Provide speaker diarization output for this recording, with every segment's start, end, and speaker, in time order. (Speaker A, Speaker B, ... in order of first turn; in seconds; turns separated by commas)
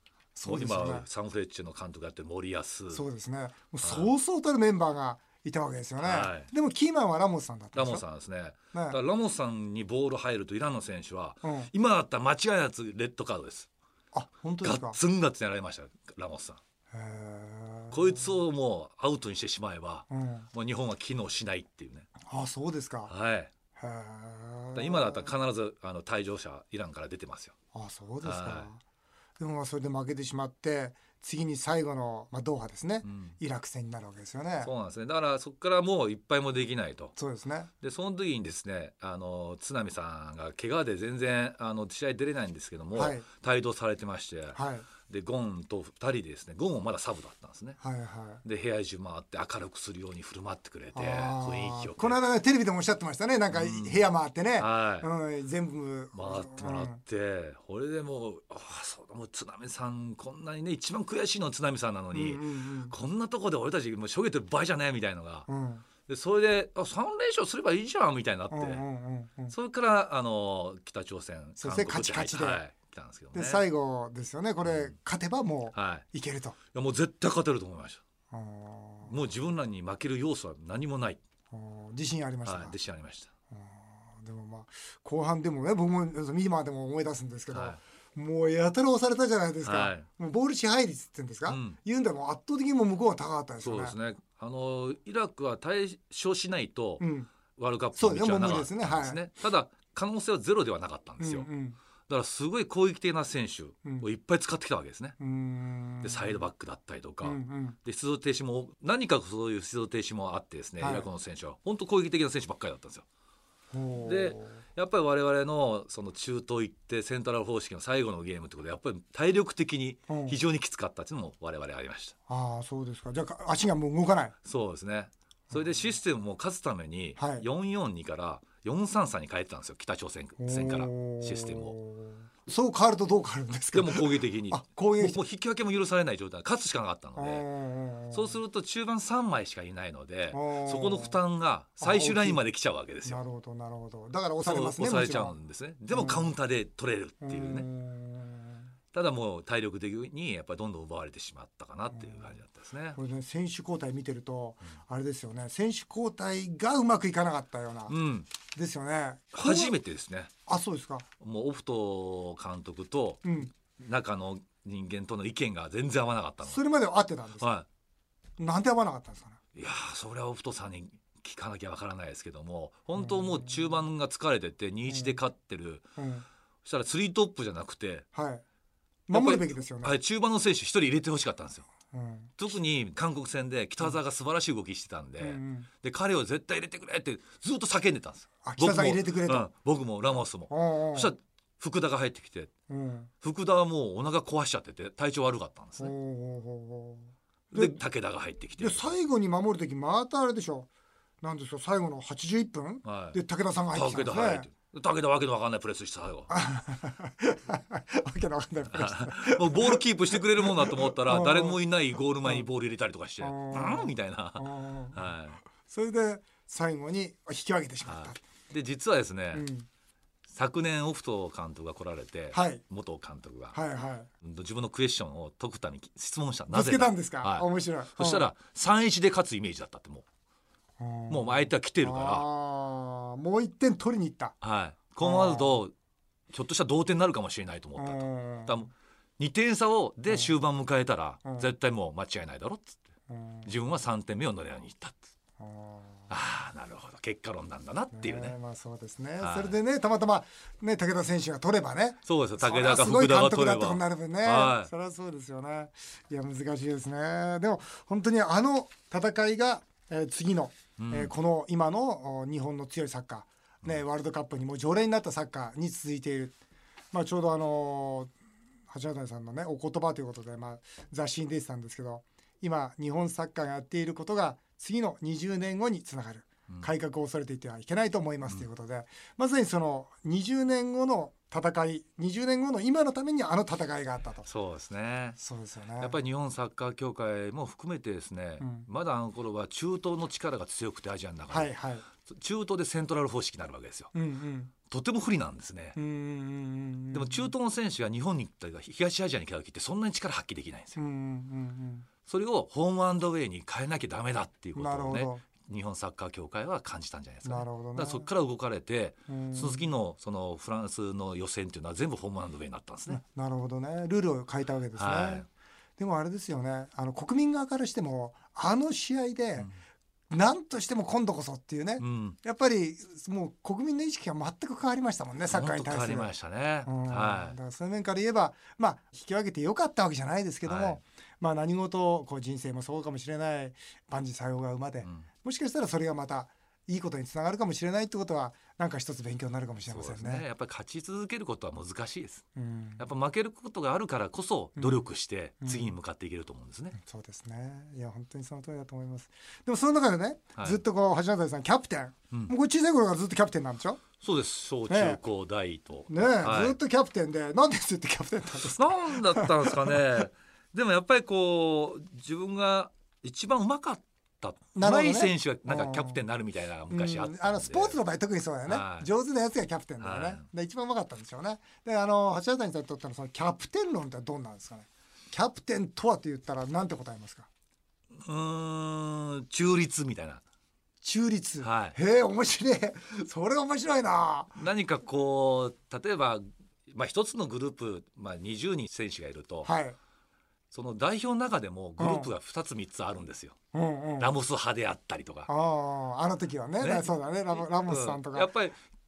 Speaker A: 0.4-1.1, Speaker B: 0.5-3.0, Speaker A: 2.9-8.0, Speaker B: 3.8-4.1, Speaker B: 6.0-6.5, Speaker B: 7.8-13.7, Speaker A: 8.7-9.0, Speaker A: 11.4-11.7, Speaker A: 14.1-15.0, Speaker B: 14.6-16.6, Speaker A: 16.9-18.3, Speaker B: 17.9-22.1, Speaker A: 20.1-20.5, Speaker A: 22.3-23.1, Speaker B: 23.1-23.5, Speaker A: 23.8-25.3, Speaker B: 24.8-27.6, Speaker A: 27.7-28.8, Speaker B: 28.2-28.7, Speaker A: 29.4-34.7, Speaker B: 33.0-33.4, Speaker B: 34.6-37.1, Speaker A: 37.2-37.7, Speaker B: 37.8-47.8, Speaker A: 42.9-43.3, Speaker A: 44.5-44.9, Speaker A: 47.8-48.4, Speaker B: 48.4-52.2, Speaker A: 50.9-57.0, Speaker B: 53.5-55.1, Speaker B: 56.1-65.5, Speaker A: 62.1-63.0, Speaker A: 65.5-65.8, Speaker B: 66.1-68.8, Speaker A: 68.5-69.5, Speaker B: 69.5-73.7, Speaker A: 71.6-72.6, Speaker A: 73.3-76.6, Speaker B: 74.6-74.9, Speaker B: 75.7-76.0, Speaker B: 76.7-78.0, Speaker A: 78.3-79.2, Speaker B: 79.1-81.2, Speaker A: 81.5-82.8, Speaker B: 82.5-83.3, Speaker A: 83.5-94.0, Speaker B: 87.5-87.8, Speaker B: 89.7-90.1, Speaker B: 91.5-91.8, Speaker B: 93.6-97.0, Speaker A: 97.0-97.3, Speaker B: 97.6-101.5, Speaker A: 98.0-99.2, Speaker A: 101.2-101.8, Speaker B: 102.1-105.2, Speaker A: 105.2-106.5, Speaker B: 106.0-113.0, Speaker A: 107.2-107.8, Speaker A: 110.8-111.1, Speaker A: 113.7-114.6, Speaker B: 114.0-122.2, Speaker A: 120.1-120.4, Speaker A: 122.3-124.4, Speaker B: 124.5-131.8, Speaker A: 127.2-127.5, Speaker A: 130.4-135.2, Speaker B: 133.7-137.5, Speaker A: 137.2-138.4, Speaker B: 138.1-143.2, Speaker A: 140.3-141.2, Speaker A: 141.8-142.4, Speaker A: 143.0-145.3, Speaker B: 144.4-147.7, Speaker A: 145.9-146.3, Speaker A: 147.2-148.7, Speaker B: 148.9-153.0, Speaker A: 151.9-152.4, Speaker A: 152.9-157.9, Speaker B: 157.9-158.3, Speaker A: 158.5-159.8, Speaker B: 159.3-160.3, Speaker A: 160.5-161.1, Speaker B: 161.2-163.2, Speaker A: 163.2-163.5, Speaker B: 163.8-166.6, Speaker A: 166.4-167.5, Speaker B: 167.4-167.7, Speaker A: 168.4-169.4, Speaker B: 169.6-175.9, Speaker A: 173.0-173.8, Speaker A: 174.9-175.2, Speaker A: 176.0-176.3, Speaker B: 176.6-178.1, Speaker A: 178.1-178.4, Speaker A: 179.1-180.0, Speaker B: 179.1-181.7, Speaker A: 181.9-182.4, Speaker B: 182.4-192.5, Speaker A: 185.2-185.7, Speaker A: 188.4-189.5, Speaker A: 190.5-191.1, Speaker A: 192.7-193.1, Speaker B: 193.2-195.9, Speaker A: 195.8-197.8, Speaker B: 197.5-199.0, Speaker A: 198.6-200.7, Speaker A: 201.2-204.5, Speaker B: 202.8-203.2, Speaker B: 203.7-206.3, Speaker A: 206.3-211.6, Speaker B: 208.7-215.4, Speaker A: 213.2-218.2, Speaker B: 217.8-219.5, Speaker A: 219.3-219.7, Speaker B: 220.3-223.6, Speaker A: 222.3-222.6, Speaker A: 223.5-224.1, Speaker B: 224.2-230.0, Speaker A: 226.5-228.3, Speaker A: 230.8-234.4, Speaker B: 231.1-232.3, Speaker B: 234.4-235.7, Speaker A: 235.0-235.6, Speaker B: 236.3-242.8, Speaker A: 237.8-238.7, Speaker A: 243.1-243.5, Speaker B: 243.4-245.0, Speaker A: 245.4-246.1, Speaker B: 246.1-248.4, Speaker A: 247.9-266.3, Speaker B: 249.2-249.6, Speaker B: 252.1-254.7, Speaker B: 260.8-261.1, Speaker A: 266.9-268.1, Speaker A: 268.7-284.3, Speaker B: 284.2-285.2, Speaker A: 285.2-286.0, Speaker B: 285.8-291.5, Speaker A: 288.4-288.7, Speaker A: 291.3-291.9, Speaker B: 292.1-293.9, Speaker A: 293.9-294.5, Speaker B: 294.7-295.8, Speaker A: 295.8-297.3, Speaker B: 296.9-300.8, Speaker A: 300.8-301.9, Speaker B: 302.1-313.0, Speaker A: 304.6-305.2, Speaker A: 307.2-308.1, Speaker A: 309.1-309.7, Speaker A: 312.9-315.3, Speaker B: 314.8-315.3, Speaker A: 315.8-319.5, Speaker A: 320.1-326.1, Speaker B: 321.8-322.2, Speaker B: 325.3-327.4, Speaker A: 326.7-340.3, Speaker B: 330.4-330.8, Speaker B: 339.7-342.2, Speaker A: 342.4-342.9, Speaker B: 342.8-346.8, Speaker A: 344.6-344.9, Speaker A: 345.4-345.7, Speaker A: 346.8-353.8, Speaker B: 354.0-356.6, Speaker A: 354.7-355.0, Speaker A: 355.9-360.0, Speaker B: 358.5-367.8, Speaker A: 364.6-366.0, Speaker A: 366.7-377.3, Speaker B: 368.4-368.9, Speaker B: 369.8-370.3, Speaker B: 377.9-380.2, Speaker A: 380.8-384.4, Speaker B: 381.4-381.8, Speaker B: 384.3-389.5, Speaker A: 389.4-389.8, Speaker B: 390.5-393.4, Speaker A: 391.8-392.1, Speaker A: 393.5-394.1, Speaker B: 394.0-395.3, Speaker A: 395.3-398.3, Speaker B: 396.6-398.6